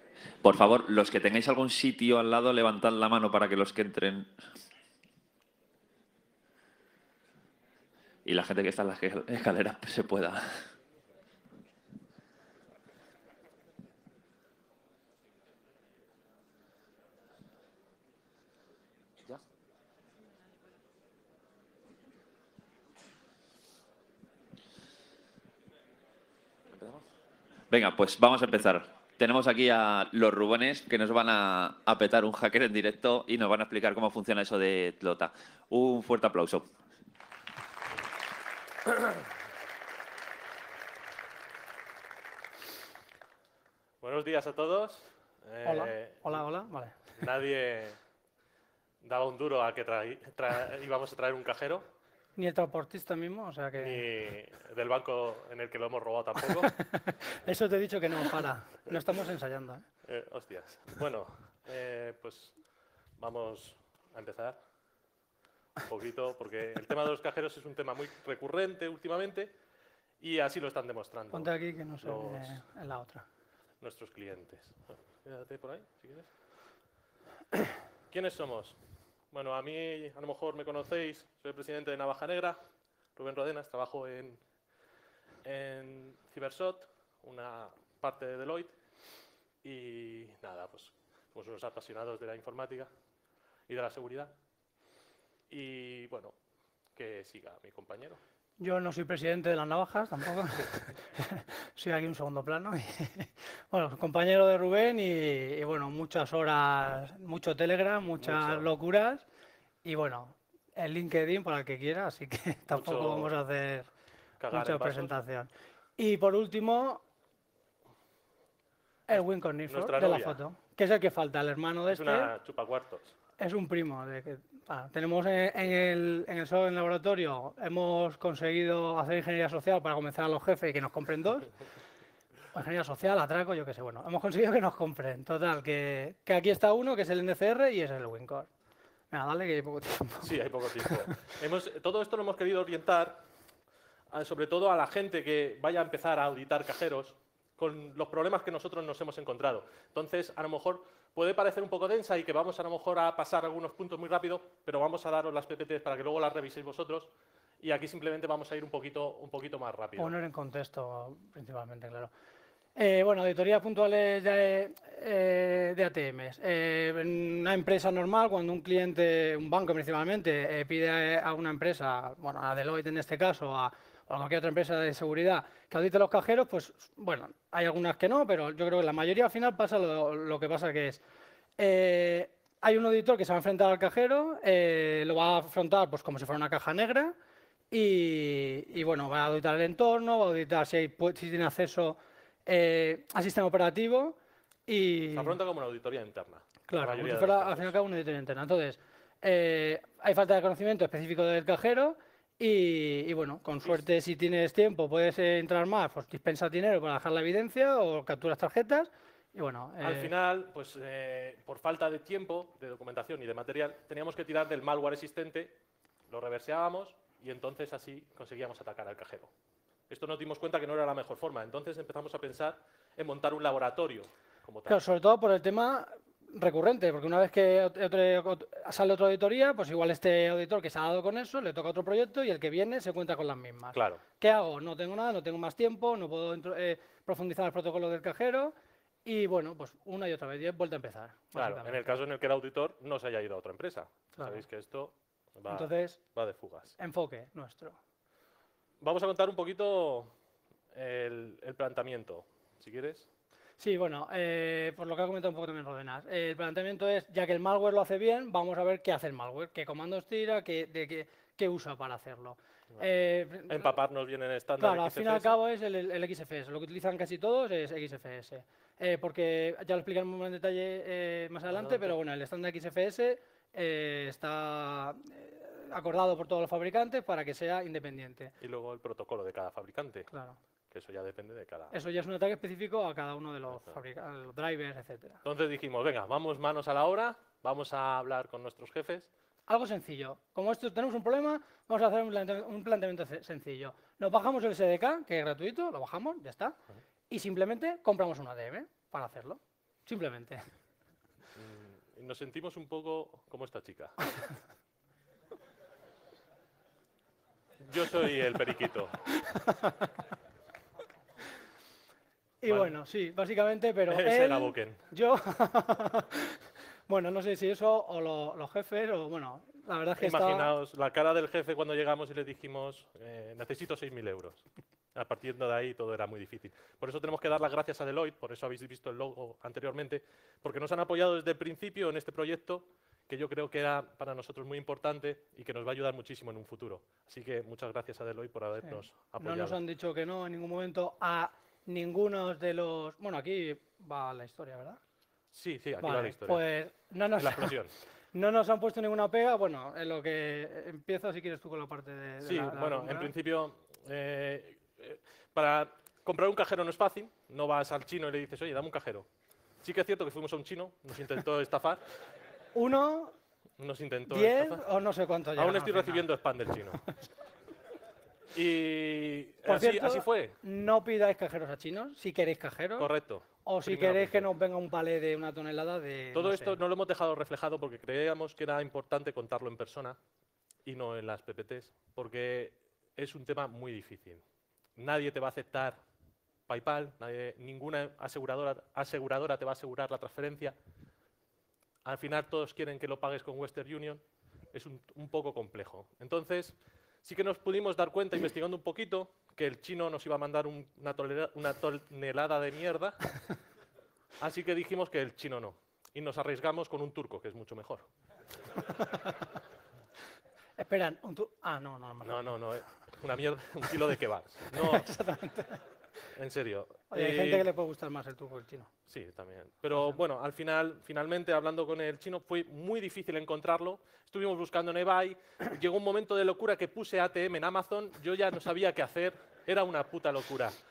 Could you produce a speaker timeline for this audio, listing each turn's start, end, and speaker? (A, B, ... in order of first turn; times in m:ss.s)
0:00.4-0:04.3 A
0:08.2-0:10.6 A
0:26.7-0:27.0 A
0:27.7-0:36.7 A
0:38.9-0:39.2 B
0:44.0-0:46.4 B
0:45.6-0:47.0 C
0:47.1-0:48.0 B
0:49.0-0:51.9 B
0:52.4-0:54.1 C
0:53.8-0:56.7 B
0:56.7-0:59.9 C
1:00.0-1:02.6 B
1:03.2-1:04.6 B
1:05.8-1:09.5 B
1:10.2-1:12.6 B
1:11.3-1:13.2 C
1:13.8-1:16.3 B
1:18.1-1:18.8 B
1:19.3-1:22.6 B
1:23.2-1:24.4 B
1:25.4-1:28.8 B
1:29.6-1:32.9 B
1:33.7-1:34.4 B
1:35.5-1:36.4 B
1:37.0-1:38.2 B
1:38.6-1:49.2 C
1:48.2-1:48.7 B
1:49.8-1:53.9 C
1:52.7-1:53.4 B
1:54.4-1:55.2 B
1:54.5-1:57.0 C
1:59.1-2:02.3 C
1:59.1-2:00.4 B
2:01.9-2:03.2 B
2:03.4-2:11.5 C
2:12.5-2:18.5 C
2:19.1-2:21.1 C
2:20.2-2:23.3 B
2:24.1-2:40.2 B
2:40.0-2:42.1 C
2:42.8-3:01.0 C
3:01.6-3:07.2 C
3:07.7-3:15.4 C
3:15.1-3:17.7 B
3:16.7-3:30.1 C
3:29.8-3:35.6 B
3:36.1-3:39.3 B
3:39.9-3:44.8 B
3:44.7-4:01.9 C
3:53.7-3:54.0 B
4:01.4-4:06.8 B
4:04.2-4:04.4 C
4:05.5-4:06.0 C
4:06.8-4:07.8 C
4:08.8-4:10.1 B
4:10.7-4:13.1 B
4:13.6-4:23.7 C
4:23.5-4:25.4 B
4:24.6-4:38.3 C
4:31.5-4:32.0 B
4:38.4-4:40.1 B
4:40.1-4:40.4 C
4:40.7-4:41.8 B
4:41.7-4:45.2 C
4:45.2-4:49.1 B
4:49.5-4:56.6 C
4:57.1-5:00.4 C
5:01.4-5:04.0 B
5:07.6-5:09.0 B
5:09.2-5:09.9 C
5:12.4-5:20.6 C
5:12.5-5:12.8 B
5:13.9-5:14.8 B
5:20.0-5:39.6 B
5:38.7-5:44.8 C
5:45.3-5:46.4 B
5:45.8-5:53.1 C
5:47.2-5:47.8 B
5:52.2-5:59.1 B
5:59.6-6:02.0 B
6:02.6-6:03.2 C
6:03.6-6:04.6 B
6:04.1-6:06.1 C
6:05.4-6:06.8 B
6:08.3-6:10.4 B
6:09.5-6:12.9 C
6:12.8-6:14.3 B
6:13.4-6:16.6 C
6:16.1-6:20.0 B
6:20.6-6:24.2 B
6:24.8-6:25.8 B
6:26.5-6:30.6 B
6:31.8-6:43.0 B
6:44.2-6:47.9 B
6:50.6-6:52.4 C
6:52.0-6:54.9 B
6:54.5-6:55.6 C
6:56.1-6:57.5 B
6:56.9-6:58.7 C
6:58.9-7:10.6 B